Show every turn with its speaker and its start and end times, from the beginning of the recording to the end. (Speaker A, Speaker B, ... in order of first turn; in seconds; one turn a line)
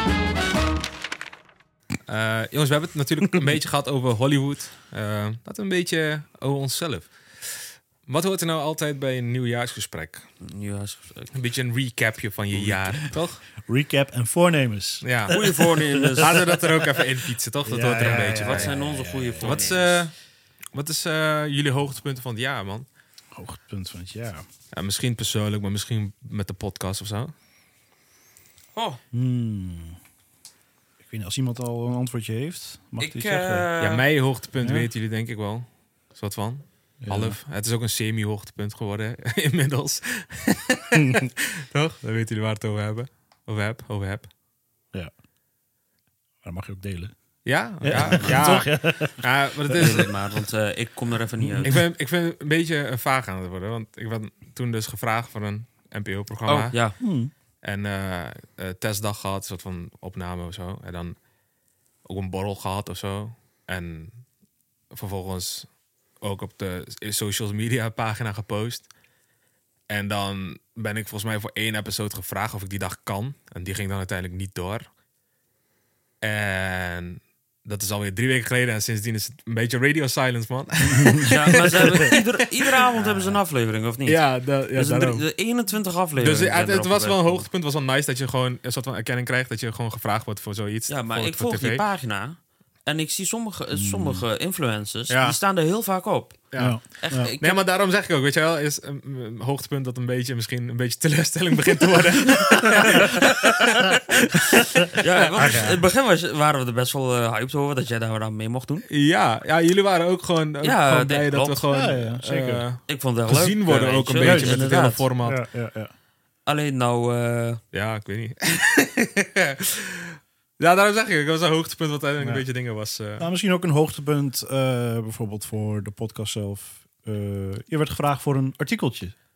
Speaker A: 2.1-10.3
Speaker B: 10.4-11.3
Speaker A: 11.3-13.4
Speaker B: 12.6-13.0
Speaker C: 13.6-16.3
Speaker A: 15.0-15.4
Speaker B: 15.3-16.4
Speaker A: 16.1-18.8
Speaker C: 17.6-19.7
Speaker B: 18.0-20.0
Speaker A: 19.4-20.1
Speaker A: 20.7-22.9
Speaker C: 23.3-24.4
Speaker A: 24.7-27.3
Speaker B: 28.7-29.0
Speaker C: 29.1-30.0
Speaker C: 31.0-33.7
Speaker B: 33.0-34.0
Speaker A: 33.8-44.3
Speaker C: 34.6-34.9
Speaker C: 37.0-37.4
Speaker C: 41.0-41.2
Speaker C: 46.4-47.1
Speaker A: 47.4-50.1
Speaker C: 47.8-50.0
Speaker B: 47.9-48.3
Speaker B: 49.7-51.8
Speaker C: 51.4-51.7
Speaker A: 51.6-56.8
Speaker B: 56.5-57.0
Speaker C: 57.0-57.3
Speaker A: 57.6-61.2
Speaker A: 62.0-64.2
Speaker A: 64.9-65.7
Speaker A: 66.2-68.9
Speaker A: 69.9-74.8
Speaker A: 76.2-83.3
Speaker C: 80.9-81.2
Speaker B: 81.2-84.2
Speaker A: 84.0-85.2
Speaker B: 84.7-87.5
Speaker A: 86.2-91.8
Speaker B: 90.9-97.6
Speaker C: 93.7-94.2
Speaker A: 95.1-95.4
Speaker A: 96.5-105.7
Speaker C: 96.6-97.3
Speaker B: 102.5-104.0
Speaker B: 104.9-108.8
Speaker C: 105.4-105.8
Speaker A: 108.9-115.4
Speaker B: 110.6-111.6
Speaker C: 111.7-112.6
Speaker B: 112.9-115.0
Speaker C: 114.2-115.9
Speaker B: 116.5-117.6
Speaker A: 117.7-123.3
Speaker C: 123.2-129.1